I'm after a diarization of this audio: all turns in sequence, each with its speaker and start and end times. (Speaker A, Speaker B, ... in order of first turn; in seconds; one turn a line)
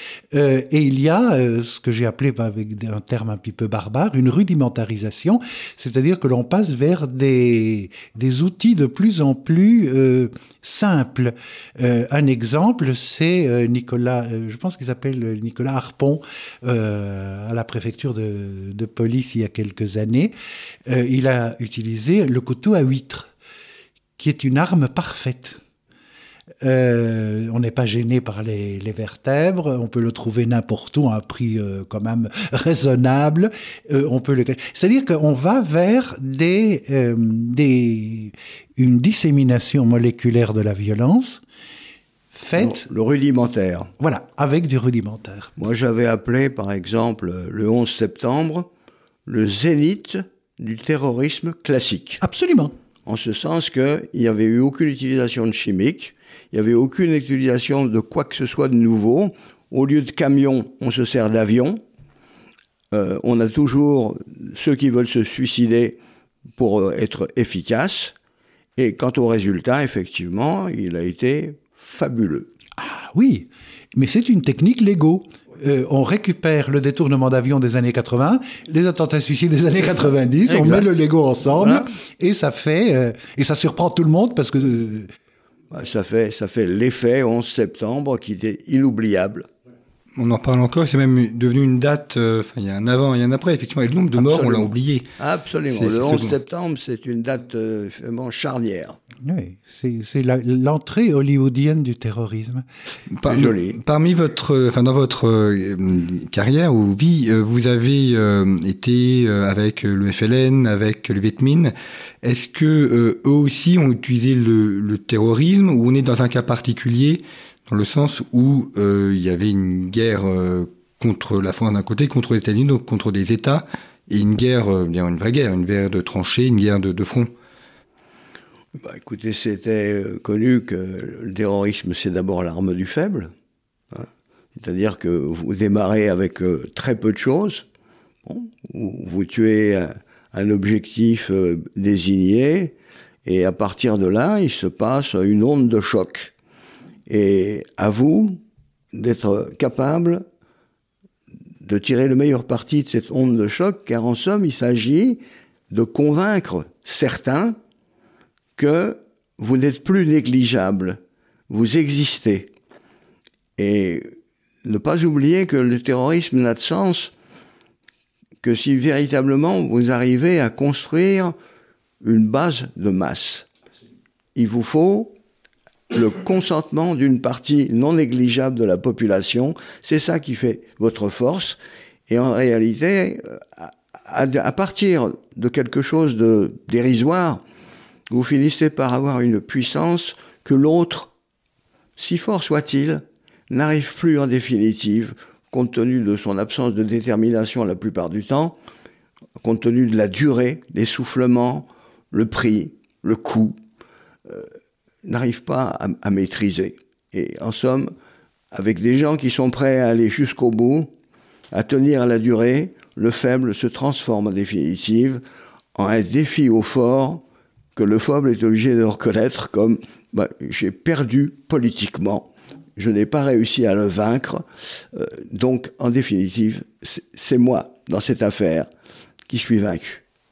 Speaker A: 0.3-20.4
Speaker A: 20.9-23.3
Speaker A: 24.2-25.6
Speaker A: 26.6-41.4
Speaker A: 42.3-42.9
Speaker B: 42.6-43.9
Speaker A: 44.0-45.5
Speaker B: 45.6-48.7
Speaker B: 49.3-52.2
Speaker A: 52.2-52.7
Speaker B: 53.1-61.8
Speaker B: 62.9-66.0
Speaker B: 66.6-68.1
Speaker B: 68.8-72.5
Speaker A: 72.8-85.1
Speaker B: 80.5-80.9
Speaker B: 81.6-81.9
Speaker B: 85.7-89.5
Speaker C: 90.2-95.1
Speaker B: 94.2-99.0
Speaker C: 95.7-96.4
Speaker A: 99.2-102.7
Speaker C: 103.2-127.3
Speaker B: 103.3-103.8
Speaker B: 128.8-133.3
Speaker B: 133.9-137.7
Speaker B: 138.3-146.3
Speaker B: 147.1-148.4
Speaker B: 148.9-150.2
Speaker B: 151.6-157.6
Speaker B: 158.6-162.5
Speaker B: 163.6-164.1
Speaker B: 164.6-167.1
Speaker B: 168.4-171.3
Speaker B: 172.0-173.5
Speaker B: 174.4-175.2
Speaker B: 175.9-187.4
Speaker B: 188.1-191.1
Speaker B: 192.0-198.6
Speaker B: 199.4-203.6
Speaker B: 205.0-207.9
Speaker B: 208.5-210.9
Speaker B: 211.5-215.2
Speaker B: 215.8-217.2
Speaker B: 217.8-228.7
Speaker B: 229.3-230.0